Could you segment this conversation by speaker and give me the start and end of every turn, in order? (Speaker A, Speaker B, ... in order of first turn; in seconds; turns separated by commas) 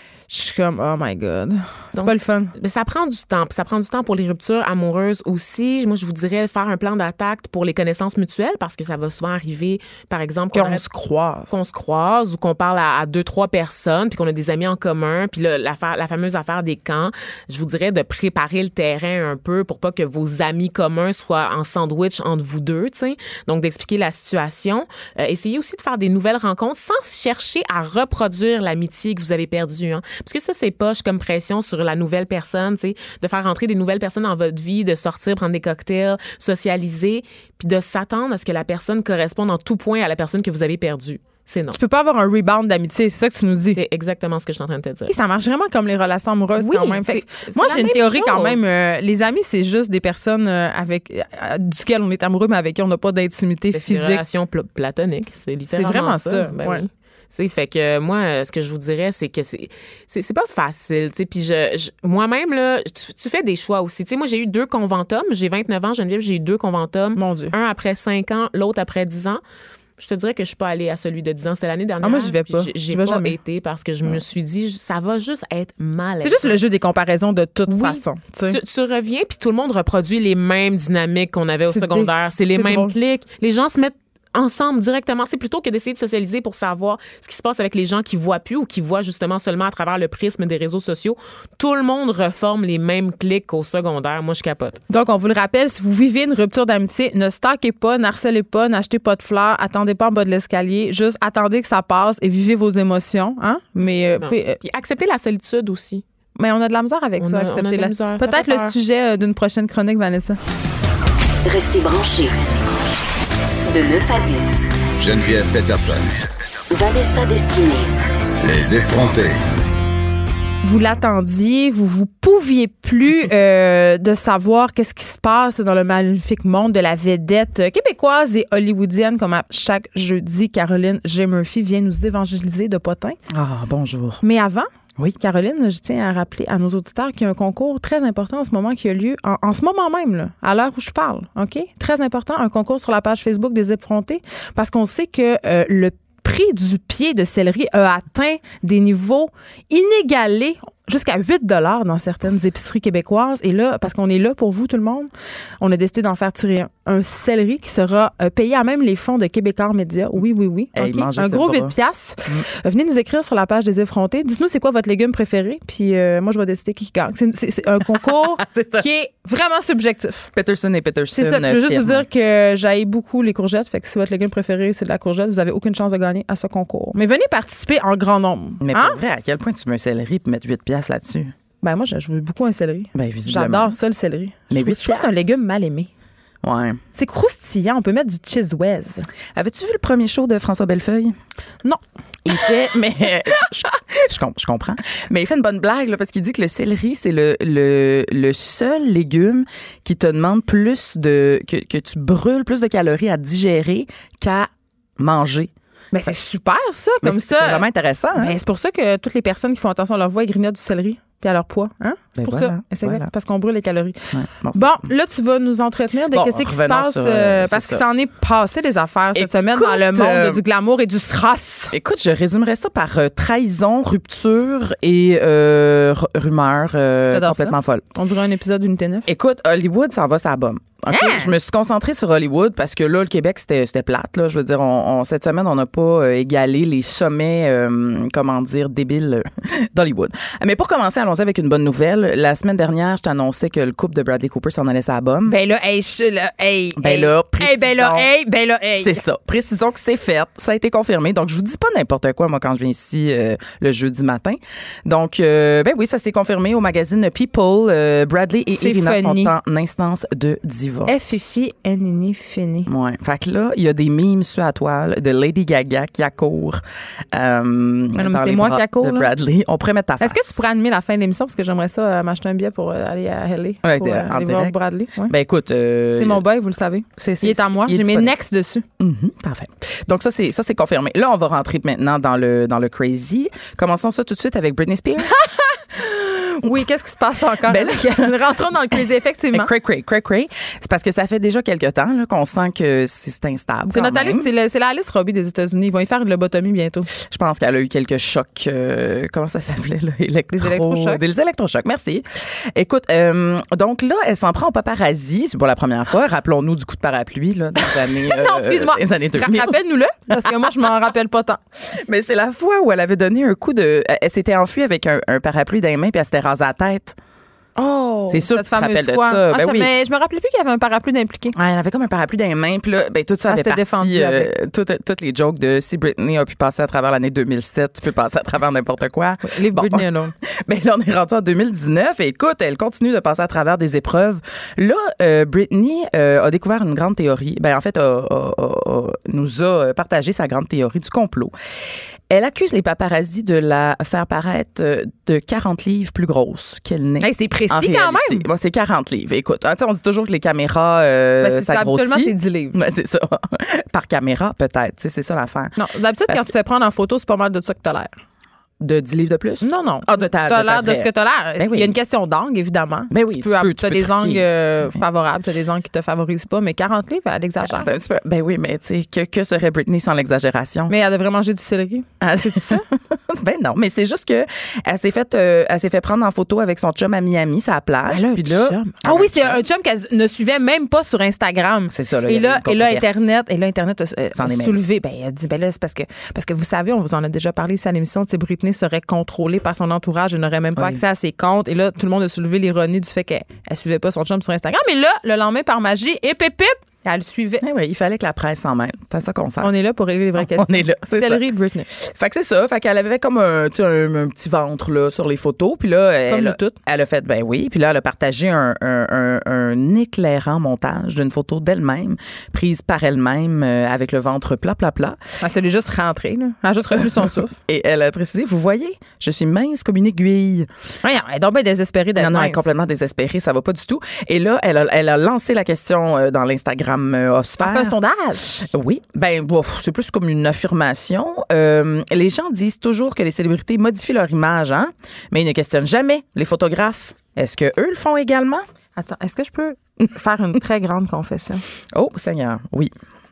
Speaker A: 0.3-2.5, Speaker B: 1.9-10.8, Speaker A: 10.5-11.5, Speaker B: 11.5-41.8, Speaker A: 41.7-43.8, Speaker B: 43.7-45.1, Speaker A: 45.1-54.2, Speaker B: 46.6-48.6, Speaker B: 53.7-69.4, Speaker A: 55.7-56.8, Speaker A: 67.2-67.5, Speaker B: 70.0-76.6, Speaker A: 72.0-73.3, Speaker A: 76.2-78.6, Speaker B: 77.7-94.8, Speaker A: 81.7-82.9, Speaker A: 94.9-104.6, Speaker B: 104.2-106.0, Speaker A: 106.4-110.4, Speaker B: 107.2-108.7, Speaker C: 111.4-112.4, Speaker C: 113.7-114.6, Speaker D: 115.0-116.1, Speaker C: 116.7-117.9, Speaker D: 118.4-119.4, Speaker A: 120.6-133.2, Speaker E: 133.3-134.2, Speaker A: 134.2-155.1, Speaker A: 155.6-170.3, Speaker E: 160.7-161.7, Speaker E: 168.2-168.9, Speaker E: 170.3-172.1, Speaker A: 171.1-179.0, Speaker E: 178.6-181.3, Speaker A: 181.6-185.9, Speaker E: 182.9-183.7, Speaker E: 184.5-185.2, Speaker E: 186.4-186.8, Speaker A: 186.9-189.1, Speaker E: 189.3-191.1, Speaker A: 191.6-192.6, Speaker E: 192.3-206.1, Speaker A: 205.9-221.7, Speaker E: 207.0-208.3, Speaker E: 212.2-213.1, Speaker E: 214.1-214.9, Speaker E: 216.1-217.8, Speaker E: 219.2-220.4, Speaker E: 221.7-227.8, Speaker A: 227.1-229.1, Speaker E: 229.1-245.3, Speaker A: 230.9-231.3, Speaker A: 245.2-249.0, Speaker E: 246.8-248.1, Speaker E: 248.8-260.9, Speaker A: 258.5-259.3, Speaker A: 260.9-262.7, Speaker E: 262.6-270.3, Speaker A: 268.0-269.1, Speaker A: 270.0-275.1, Speaker E: 273.6-274.5, Speaker E: 275.1-276.2, Speaker A: 275.9-278.6, Speaker E: 277.0-278.1, Speaker E: 278.8-285.1, Speaker A: 285.0-289.5, Speaker E: 287.4-288.2, Speaker E: 289.3-294.3, Speaker A: 293.7-296.9, Speaker E: 297.0-309.6, Speaker A: 300.3-301.0, Speaker A: 307.6-311.4, Speaker E: 311.8-316.9, Speaker A: 317.6-321.4, Speaker E: 318.1-319.7, Speaker E: 321.3-329.8, Speaker A: 323.3-324.3, Speaker A: 329.2-330.1, Speaker E: 330.4-341.3, Speaker E: 342.1-356.3, Speaker A: 347.0-348.2, Speaker A: 351.2-352.6, Speaker A: 355.6-358.0, Speaker E: 358.6-361.7, Speaker A: 359.4-367.7, Speaker E: 362.9-364.2, Speaker E: 367.4-370.7, Speaker A: 370.7-372.6, Speaker E: 372.0-379.4, Speaker A: 377.9-397.4, Speaker E: 381.7-383.0, Speaker E: 384.1-384.6, Speaker E: 390.6-390.8, Speaker E: 397.4-399.5, Speaker A: 399.4-401.7, Speaker E: 400.2-401.2, Speaker E: 401.9-415.0, Speaker A: 406.1-406.6, Speaker A: 415.2-417.4, Speaker E: 417.5-420.5, Speaker A: 420.8-422.5, Speaker E: 422.0-427.8, Speaker A: 427.4-428.4, Speaker E: 428.4-438.4, Speaker A: 438.8-441.4, Speaker E: 441.7-442.7